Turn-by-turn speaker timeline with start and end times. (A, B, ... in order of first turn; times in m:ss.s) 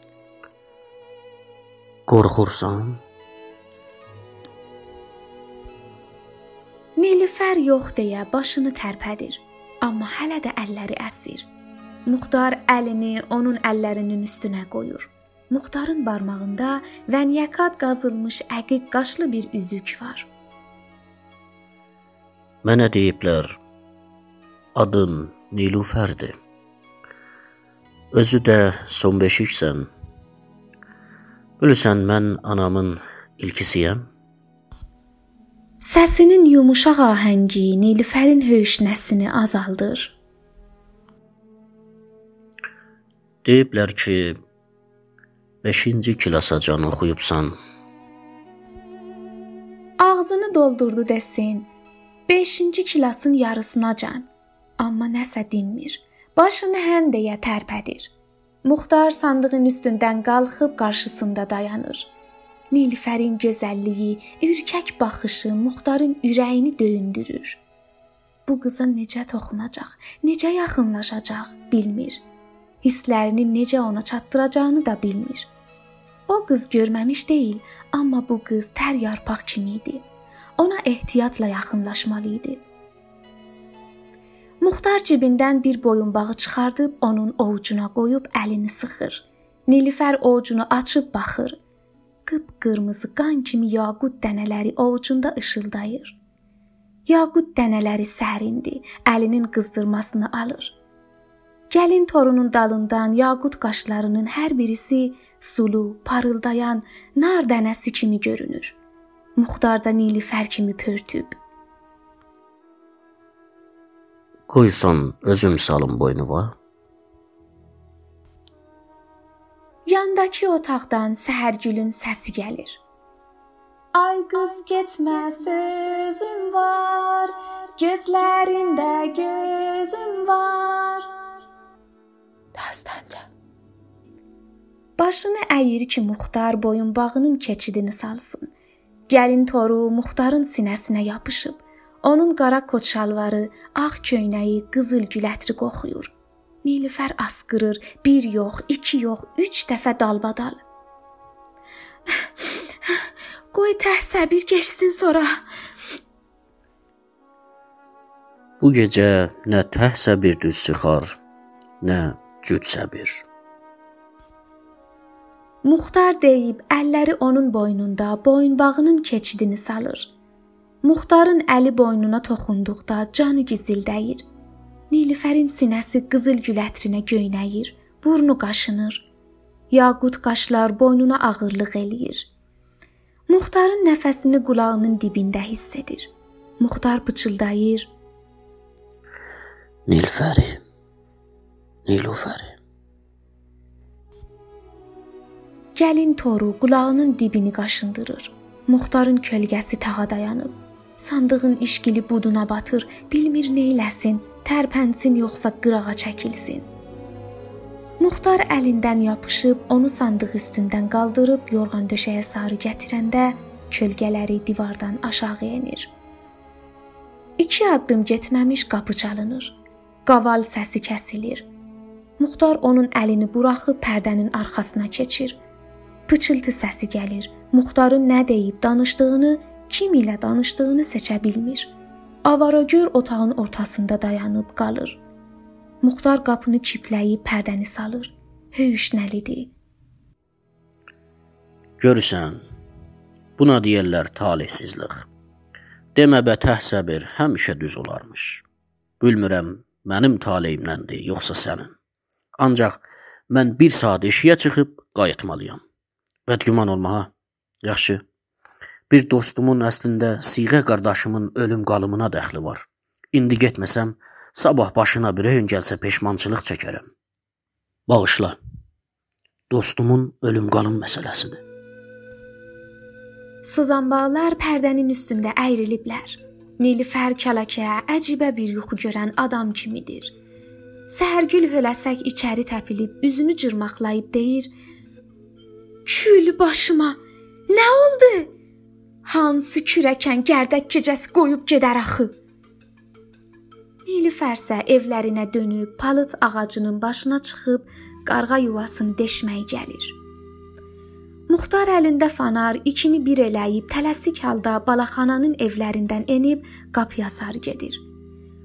0:02.1-0:03.0 A
0:07.0-0:11.5 B
0:12.1-0:20.3 B
0:22.6-0:23.6 A
0:24.8-0:26.4 A
0:28.1-0:29.9 A
0:31.6-0:34.1 A
0:35.8-0:40.2 B
0:43.4-0:44.4 A
0:45.6-0:47.6 A
0:50.0-0:51.7 B
0:52.3-0:54.3 B
0:54.8-0:58.1 B
0:58.6-1:02.1 B
1:02.7-1:07.6 B
1:08.5-1:12.2 B
1:12.8-1:15.5 B
1:16.3-1:20.0 B
1:20.6-1:22.6 B
1:24.6-1:31.6 B
1:32.3-1:36.2 B
1:37.1-1:40.8 B
1:41.7-1:48.8 B
1:49.4-1:51.4 B
1:54.5-1:56.6 A
1:59.9-2:02.8 B
2:03.9-2:11.1 B
2:12.6-2:13.3 B
2:15.0-2:18.5 B
2:19.1-2:26.1 B
2:26.6-2:30.6 B
2:32.4-2:33.0 B
2:33.5-2:35.4 B
2:38.6-2:41.2 A
2:41.8-2:43.2 A
2:45.6-2:50.1 B
2:50.8-2:54.2 B
2:54.9-2:59.1 B
2:59.7-3:02.3 B
3:03.3-3:07.9 B
3:09.9-3:10.6 A
3:11.9-3:12.6 A
3:15.8-3:26.7 B
3:28.0-3:35.9 B
3:37.4-3:41.5 B
3:42.2-3:45.4 B
3:46.1-3:51.7 B
3:52.3-3:55.0 B
3:55.8-3:59.5 B
4:01.8-4:02.4 A
4:03.4-4:05.1 A
4:06.0-4:08.4 A
4:09.0-4:11.7 A
4:12.4-4:15.6 A
4:16.3-4:17.1 A
4:17.6-4:18.0 A
4:18.9-4:26.9 A
4:27.9-4:28.4 A
4:29.5-4:31.4 A
4:33.4-4:40.1 B
4:40.9-4:44.5 B
4:45.9-4:47.0 B
4:47.5-4:48.3 B
4:49.0-4:52.1 B
4:53.9-5:00.0 B
5:01.3-5:07.8 B